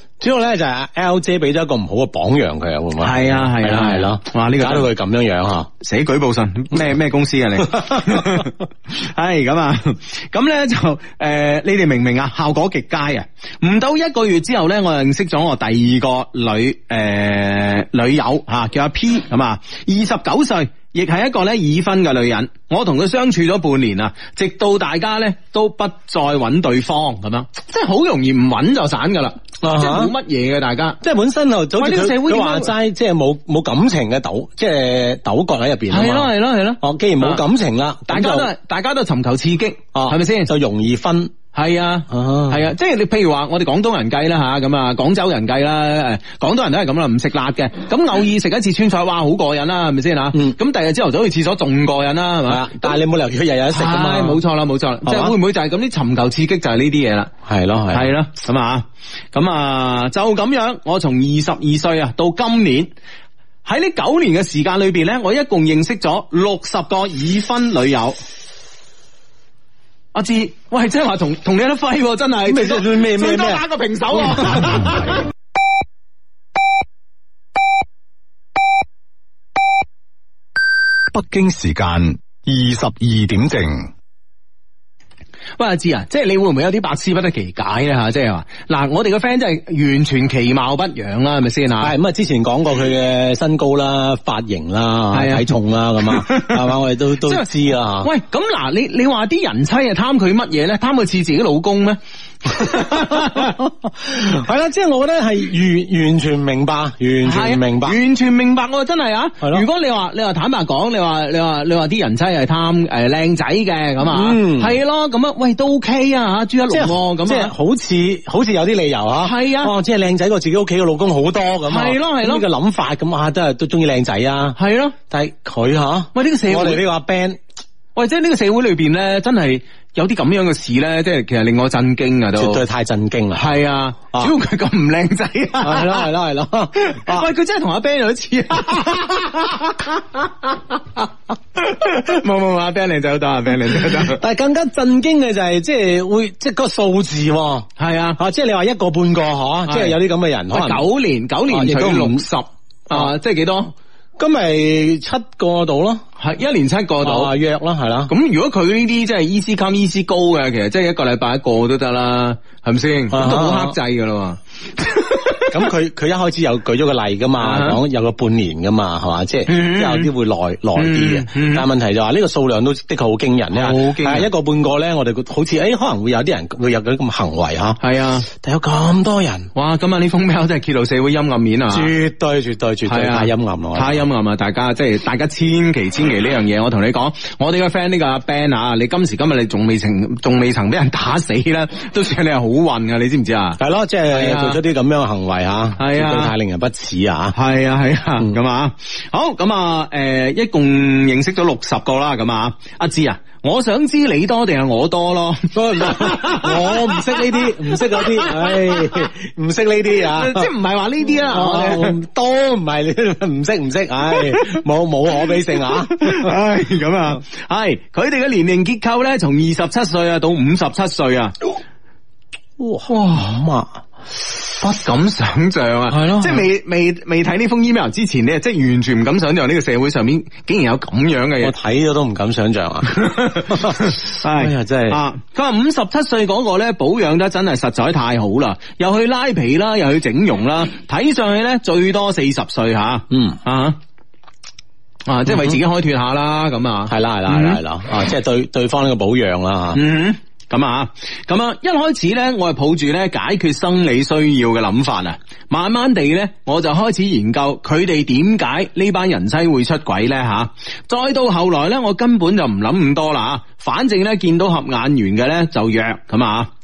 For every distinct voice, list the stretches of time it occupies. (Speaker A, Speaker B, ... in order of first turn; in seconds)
Speaker A: 0.2-5.7, 29.6-30.1, 31.0-38.5, 40.0-41.3, 42.1-42.7, 52.5-54.4, 55.0-55.4, 57.5-58.1, 72.5-73.7, 74.2-74.7, 91.8-98.1, 103.1-108.0, 114.1-114.8, 116.7-124.6, 125.1-127.4, 132.3-133.5, 135.6-137.3, 143.8-150.8, 151.5-152.2, 154.2-156.0, 157.0-158.1, 163.1-163.8, 165.5-179.5, 181.7-184.0, 193.6-197.4, 205.5-210.5, 211.1-216.3, 222.6-223.8, 225.9-226.5, 231.4-235.0, 243.1-243.4, 246.9-249.8
Speaker B: 3.0-4.9, 5.8-31.0, 31.8-32.7, 35.9-37.4, 38.1-40.5, 41.5-53.0, 53.7-57.3, 57.9-62.9, 63.6-68.2, 70.1-75.2, 85.6-91.9, 95.1-95.5, 96.1-96.6, 97.2-97.5, 98.0-103.6, 107.2-117.5, 119.2-119.7, 121.7-122.5, 124.6-125.0, 126.1-126.8, 128.0-132.6, 133.3-136.1, 136.8-140.3, 141.6-144.2, 147.8-148.2, 149.7-150.0, 150.5-153.7, 156.2-157.3, 158.1-165.4, 167.4-167.8, 169.5-170.1, 170.8-171.7, 173.5-174.3, 177.8-178.3, 179.6-181.9, 182.9-194.6, 195.8-196.3, 197.3-209.1, 210.0-212.0, 214.1-214.6, 215.8-221.3, 222.9-223.3, 224.6-231.6, 232.9-243.8, 245.1-247.6, 249.7-266.5
Speaker C: 81.1-83.9